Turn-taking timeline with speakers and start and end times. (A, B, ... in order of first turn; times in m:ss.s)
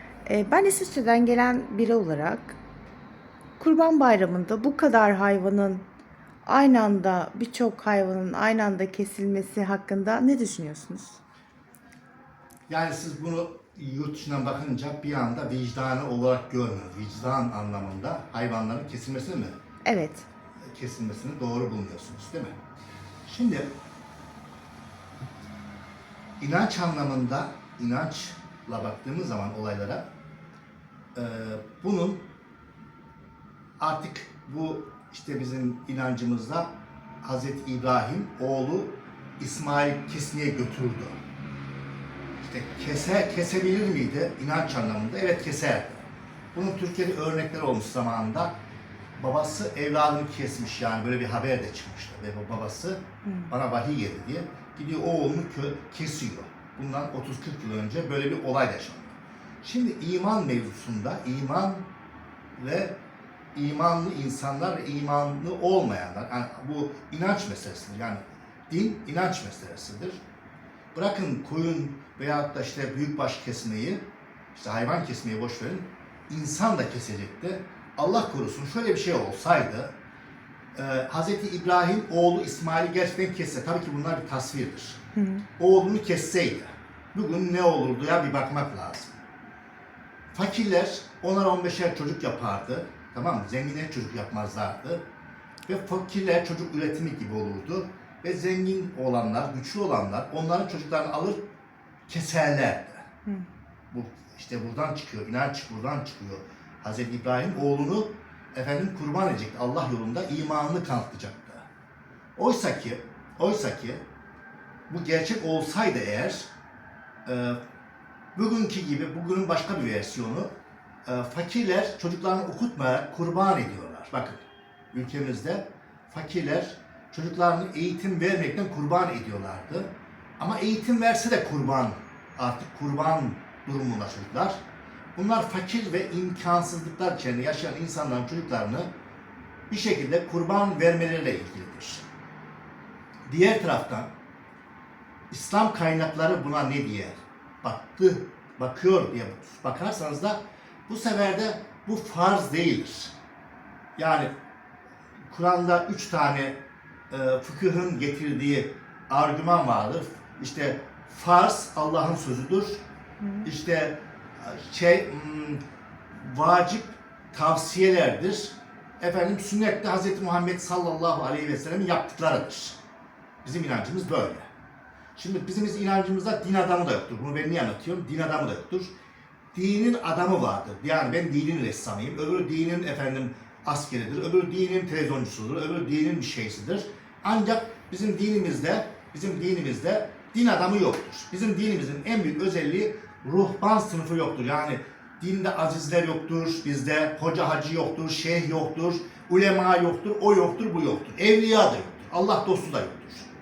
0:00.2-0:02.6 A
0:03.6-0:05.8 A
0:06.4-0:11.2 A
0:12.7-0:19.5 B
0:19.8-0:20.2 A
0:20.6-0:22.5 B
0:23.2-0:23.7 B
0:26.4-0:30.0 B
0:31.2-0:32.2 B
0:33.8-0:36.7 B
0:37.2-0:41.2 B
0:42.4-0:48.5 B
0:49.2-1:01.8 B
0:53.2-0:53.5 A
1:02.6-1:02.9 B
1:03.5-1:10.2 B
1:10.9-1:14.0 B
1:14.5-1:19.9 B
1:20.7-1:25.0 B
1:25.2-1:25.4 A
1:25.6-1:29.2 B
1:30.3-1:35.0 B
1:35.6-1:41.4 B
1:42.1-1:43.0 B
1:43.9-1:51.6 B
1:52.4-1:54.0 B
1:54.9-1:56.5 B
1:57.2-1:57.6 B
1:58.3-2:00.5 B
2:01.0-2:14.6 B
2:15.2-2:18.9 B
2:19.7-2:22.0 B
2:23.2-2:24.1 B
2:25.3-2:33.1 B
2:34.0-2:34.3 B
2:35.3-2:36.6 B
2:37.1-2:42.8 B
2:43.2-2:43.5 A
2:43.4-2:45.6 B
2:46.2-2:52.8 B
2:53.4-2:54.5 B
2:55.2-2:58.9 B
2:59.5-3:23.3 B